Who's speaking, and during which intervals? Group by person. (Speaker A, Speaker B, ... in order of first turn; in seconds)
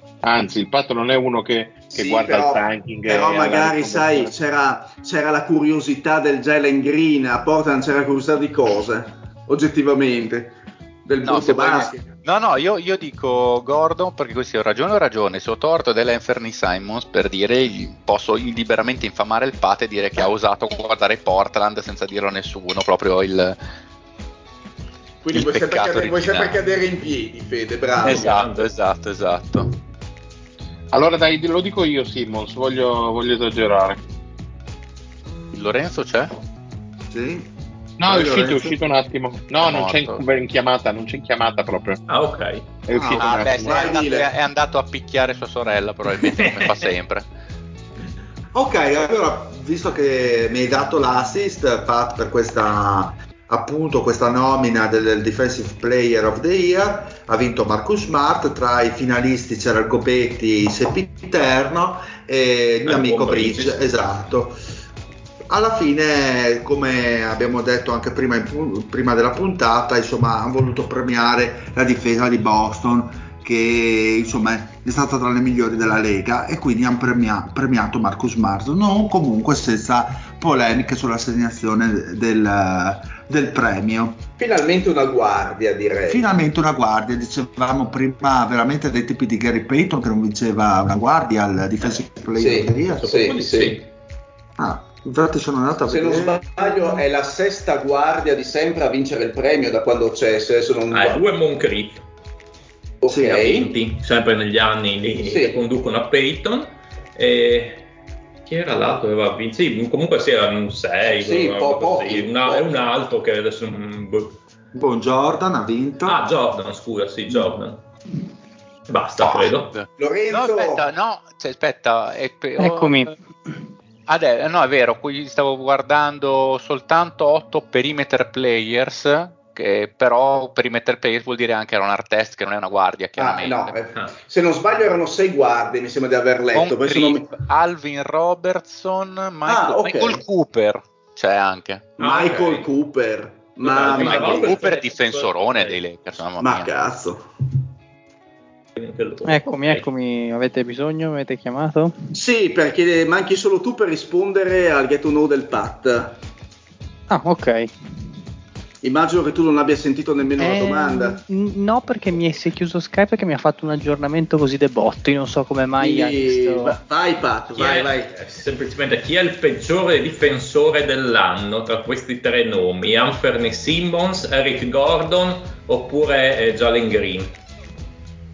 Speaker A: 0.2-4.3, 30.9-34.0, 38.0-42.0, 42.9-44.0
Speaker B: 1.9-11.9, 25.2-28.3, 43.6-44.3, 84.4-86.3, 92.4-93.8, 95.9-101.2, 103.0-103.7, 105.3-105.6, 111.2-112.7, 120.0-120.8, 133.2-137.3, 139.4-140.2, 142.0-144.5, 146.4-147.2, 152.1-156.2, 158.8-161.2, 165.8-168.1
Speaker C: 11.2-23.6, 25.3-26.6, 28.0-29.7, 35.5-36.3, 39.6-40.2, 43.1-47.2, 119.2-123.1, 124.1-133.8, 136.5-141.9, 143.8-146.7
Speaker D: 28.0-28.7, 42.1-42.7, 46.1-46.9, 62.9-64.0, 93.0-93.8, 100.9-102.0, 103.3-107.9, 108.5-114.3, 116.0-117.8, 118.9-119.7, 142.0-142.7, 143.6-145.8, 148.8-149.9, 167.5-177.3
Speaker E: 37.1-37.5, 38.0-38.8, 42.9-43.4, 48.5-64.6, 65.5-84.2, 86.1-93.2, 94.6-96.6, 103.1-103.5, 114.7-116.2
Speaker F: 122.6-123.1, 149.2-151.9, 157.1-157.7, 160.4-166.8